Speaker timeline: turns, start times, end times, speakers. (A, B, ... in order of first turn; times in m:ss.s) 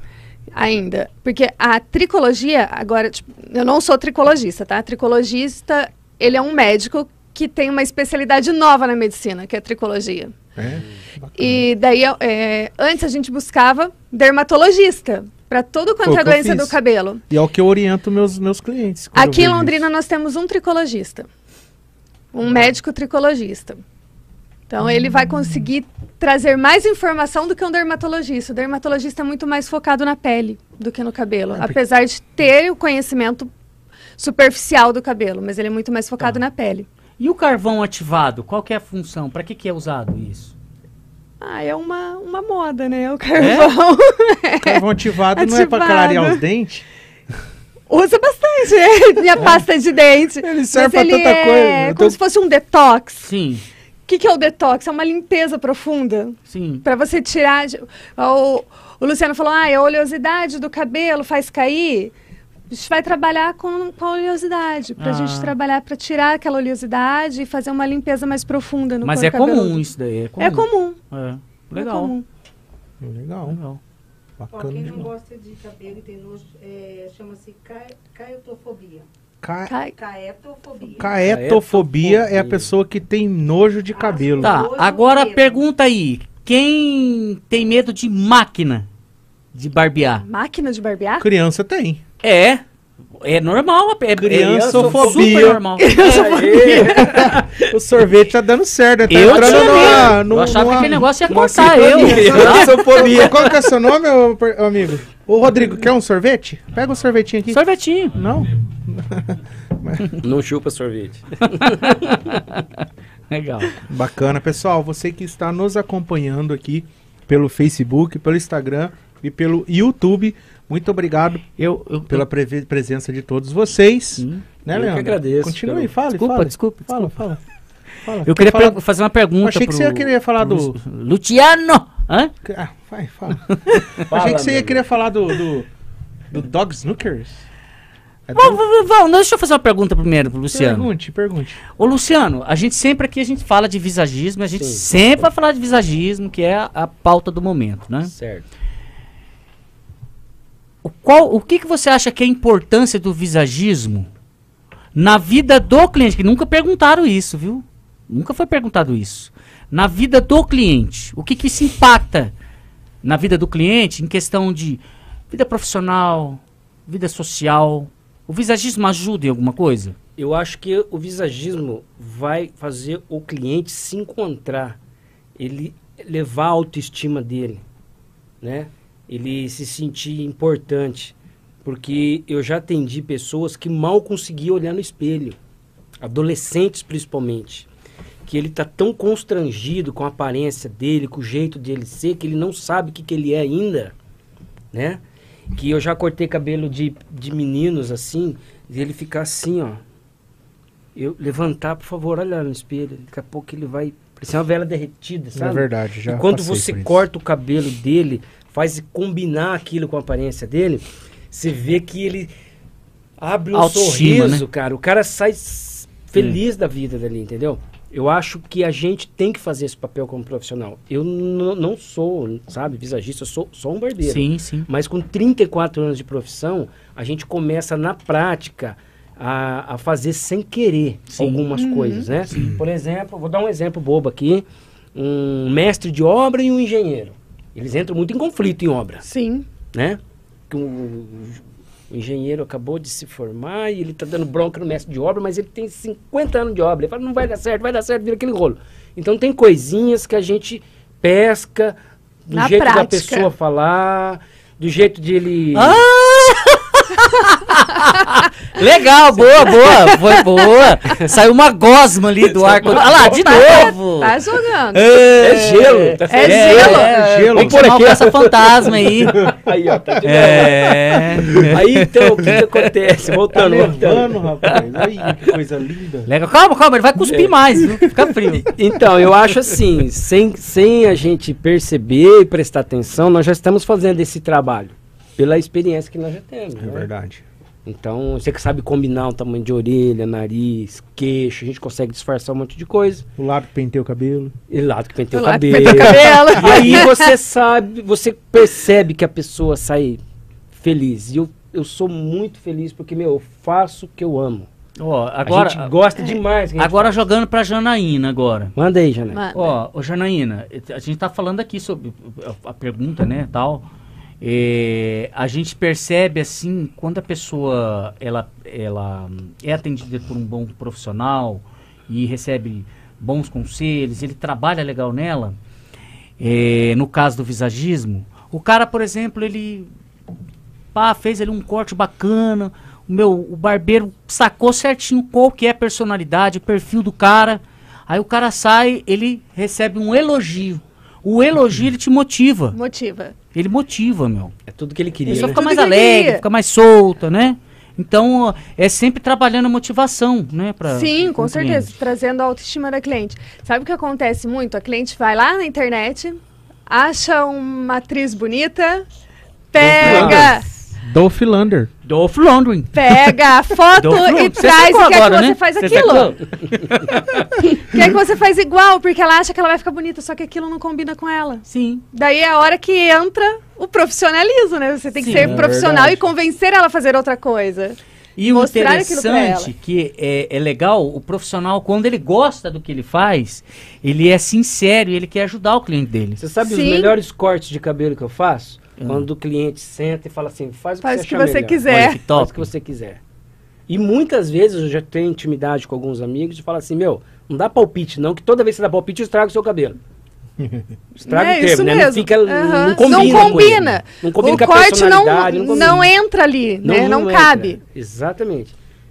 0:00.6-0:10.4 A
0:10.6-0:11.6 B
0:11.4-0:17.2 A
0:16.0-0:16.8 B
0:17.3-0:19.8 B
0:19.2-0:21.3 A
0:22.3-0:23.8 A
0:24.7-0:33.5 A
0:34.2-0:36.9 A
0:37.2-0:40.5 C
0:41.4-0:44.8 A
0:43.4-0:43.7 C
0:44.6-0:46.9 B
0:45.4-0:46.4 A
0:47.9-0:53.3 A
0:50.4-0:52.2 B
0:53.2-0:53.6 C
0:54.1-1:02.1 A
0:56.5-0:56.8 C
1:02.7-1:09.8 A
1:05.0-1:05.5 C
1:09.0-1:12.1 C
1:10.4-1:11.0 A
1:11.8-1:12.2 A
1:13.0-1:13.6 B
1:13.5-1:13.8 C
1:14.4-1:15.1 B
1:14.5-1:19.0 D
1:19.4-1:19.7 B
1:19.7-1:19.9 A
1:19.9-1:21.2 D
1:21.0-1:24.6 B
1:21.2-1:22.7 E
1:24.0-1:25.6 D
1:24.4-1:28.9 C
1:29.5-1:30.2 C
1:30.2-1:31.3 A
1:31.2-1:32.0 B
1:32.2-1:32.6 C
1:33.2-1:36.6 C
1:34.2-1:35.6 B
1:34.4-1:37.5 E
1:35.8-1:37.2 A
1:36.7-1:50.2 B
1:39.1-1:42.9 C
1:41.3-1:43.6 E
1:47.5-1:48.2 C
1:50.2-1:52.1 E
1:51.6-1:53.8 C
1:53.9-2:01.5 B
2:01.6-2:02.2 C
2:02.1-2:07.4 B
2:04.2-2:04.4 C
2:04.7-2:05.9 E
2:06.1-2:07.3 C
2:08.0-2:08.8 B
2:08.2-2:12.3 C
2:09.4-2:10.8 B
2:12.4-2:15.7 B
2:13.5-2:14.0 C
2:14.1-2:14.8 E
2:16.3-2:17.4 B
2:18.3-2:18.6 B
2:18.3-2:20.9 C
2:20.5-2:21.6 B
2:21.8-2:28.1 C
2:24.6-2:24.8 E
2:28.1-2:28.4 E
2:30.8-2:34.1 C
2:35.0-2:42.3 C
2:43.0-2:50.0 C
2:50.2-2:54.8 E
2:55.4-2:57.6 E
2:58.4-3:05.4 E
3:06.0-3:07.7 E
3:08.3-3:13.9 E
3:14.7-3:15.0 E
3:15.5-3:19.8 E
3:21.0-3:32.3 E
3:25.4-3:27.0 B
3:33.2-3:59.0 E
3:33.5-3:34.4 C
3:44.0-3:44.7 C
3:51.1-3:51.5 C
3:51.6-3:52.1 A
3:52.3-3:52.6 C
3:59.1-3:59.5 A
3:59.7-4:15.8 E
4:12.3-4:13.3 A
4:15.6-4:24.2 C
4:22.3-4:23.6 E
4:22.8-4:24.8 A
4:24.7-4:29.3 C
4:25.2-4:34.6 E
4:26.1-4:26.9 A
4:26.5-4:27.8 B
4:30.0-4:32.4 C
4:31.3-4:31.5 B
4:33.3-4:36.1 B
4:36.1-4:38.6 C
4:37.1-4:37.9 E
4:38.4-4:46.9 E
4:46.6-4:47.2 B
4:47.6-4:53.1 E
4:53.2-4:54.3 B
4:54.5-5:00.0 E
4:55.1-4:57.1 A
4:55.5-4:56.8 B
5:00.6-5:04.5 E
5:04.8-5:05.7 C
5:05.2-5:07.0 E
5:06.6-5:08.5 C
5:08.6-5:09.2 E
5:09.1-5:09.6 A
5:09.3-5:13.6 C
5:14.2-5:25.4 C
5:26.2-5:29.7 C
5:30.7-5:42.6 C
5:42.5-5:43.1 A
5:43.3-5:44.3 C
5:44.5-5:45.4 E
5:45.1-5:46.2 A
5:45.1-5:51.7 C
5:50.7-5:58.8 A
5:59.5-6:00.4 A
5:59.8-6:01.7 B
5:59.8-6:00.3 E
5:59.8-6:00.3 C
6:01.8-6:03.1 C
6:02.7-6:06.2 A
6:03.8-6:07.3 C
6:07.4-6:17.8 A
6:11.5-6:11.8 C
6:15.0-6:15.5 C
6:15.1-6:16.0 B
6:18.2-6:26.2 C
6:18.3-6:19.5 A
6:26.2-6:33.0 E
6:26.4-6:26.9 A
6:28.8-6:29.1 C
6:30.8-6:32.0 A
6:31.7-6:32.5 C
6:33.7-6:39.8 E
6:40.4-6:40.7 B
6:41.0-6:45.9 E
6:41.1-6:47.6 A
6:42.9-6:43.7 B
6:45.5-6:45.8 B
6:46.6-6:48.5 E